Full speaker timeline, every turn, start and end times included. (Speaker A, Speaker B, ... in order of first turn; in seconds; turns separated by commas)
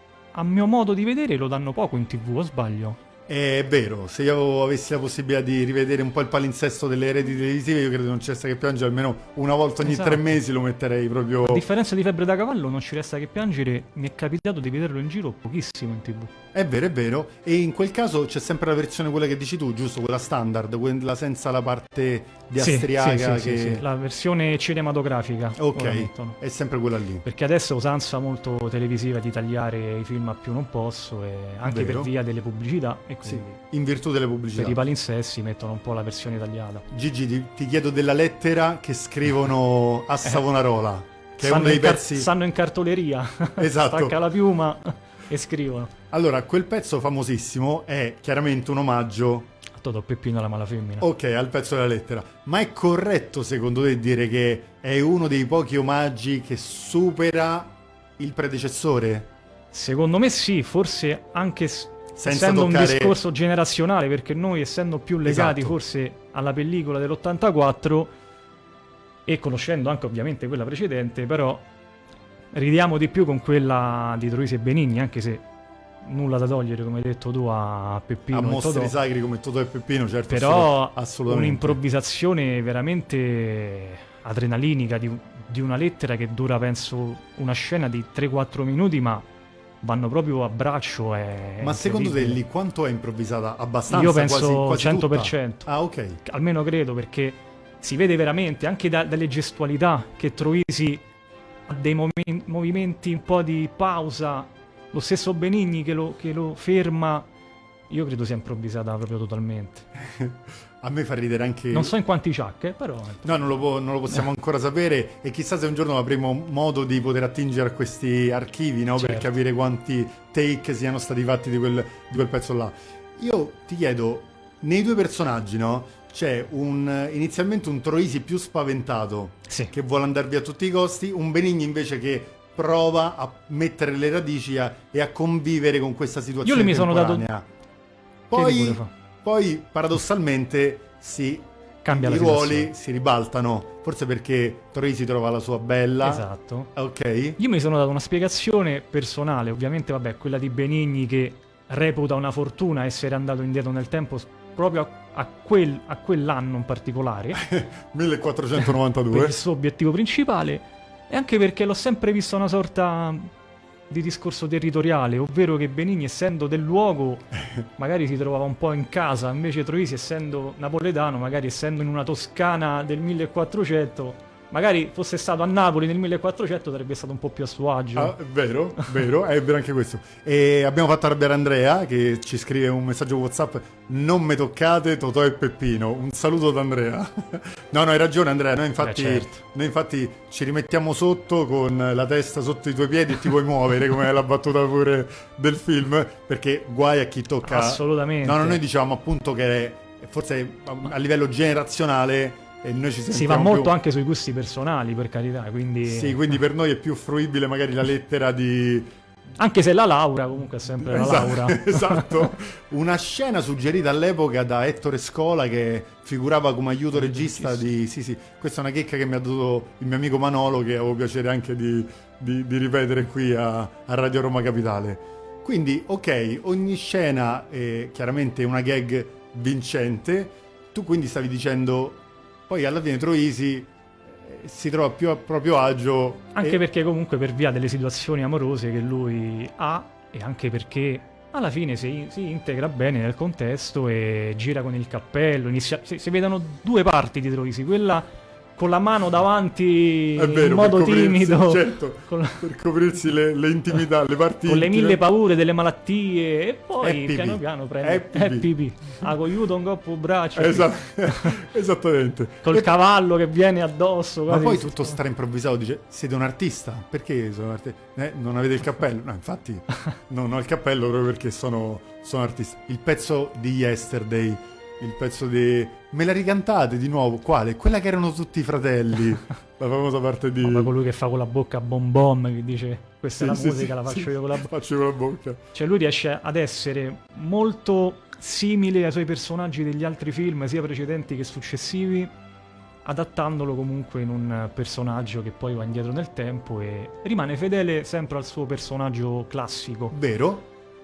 Speaker A: 0.3-3.0, Speaker B: 3.3-11.7, Speaker A: 9.8-10.3, Speaker A: 11.4-16.3, Speaker B: 16.5-23.9, Speaker A: 22.6-26.4, Speaker B: 25.6-27.3, Speaker A: 27.2-33.6, Speaker B: 31.6-32.1, Speaker B: 33.2-34.8, Speaker A: 34.5-36.9, Speaker B: 36.9-42.3, Speaker A: 41.4-45.9, Speaker B: 43.6-44.2, Speaker B: 46.1-49.5, Speaker A: 49.8-51.1, Speaker B: 51.0-59.3, Speaker A: 59.7-68.1, Speaker B: 62.1-63.2, Speaker B: 65.2-65.8, Speaker A: 69.3-71.7, Speaker A: 72.5-75.4, Speaker A: 76.0-78.9, Speaker B: 78.3-81.8, Speaker A: 80.3-89.3, Speaker A: 89.8-92.4, Speaker B: 91.6-96.2, Speaker A: 93.9-95.7, Speaker A: 96.2-101.0, Speaker A: 101.7-107.3, Speaker A: 107.9-109.9, Speaker B: 110.0-112.0, Speaker A: 111.7-113.3, Speaker B: 113.2-137.5, Speaker A: 119.0-119.3, Speaker A: 136.4-137.3, Speaker B: 138.3-147.4, Speaker A: 138.3-138.9, Speaker A: 141.8-142.7, Speaker A: 146.0-146.7, Speaker A: 147.4-157.4, Speaker B: 157.3-159.4, Speaker A: 159.1-163.3, Speaker A: 163.9-178.2, Speaker B: 178.0-203.8, Speaker A: 188.8-189.4, Speaker A: 197.4-198.6, Speaker A: 203.1-206.3, Speaker B: 205.8-208.9, Speaker A: 209.4-212.3, Speaker B: 210.8-236.6, Speaker A: 216.9-217.6, Speaker A: 236.4-252.4, Speaker B: 250.2-255.0, Speaker A: 254.4-261.4, Speaker B: 256.8-258.5, Speaker B: 260.4-262.7, Speaker A: 262.4-265.0, Speaker B: 264.3-280.7, Speaker A: 280.4-284.5, Speaker B: 283.2-285.4, Speaker A: 285.5-292.1, Speaker A: 292.9-300.0, Speaker B: 299.9-300.5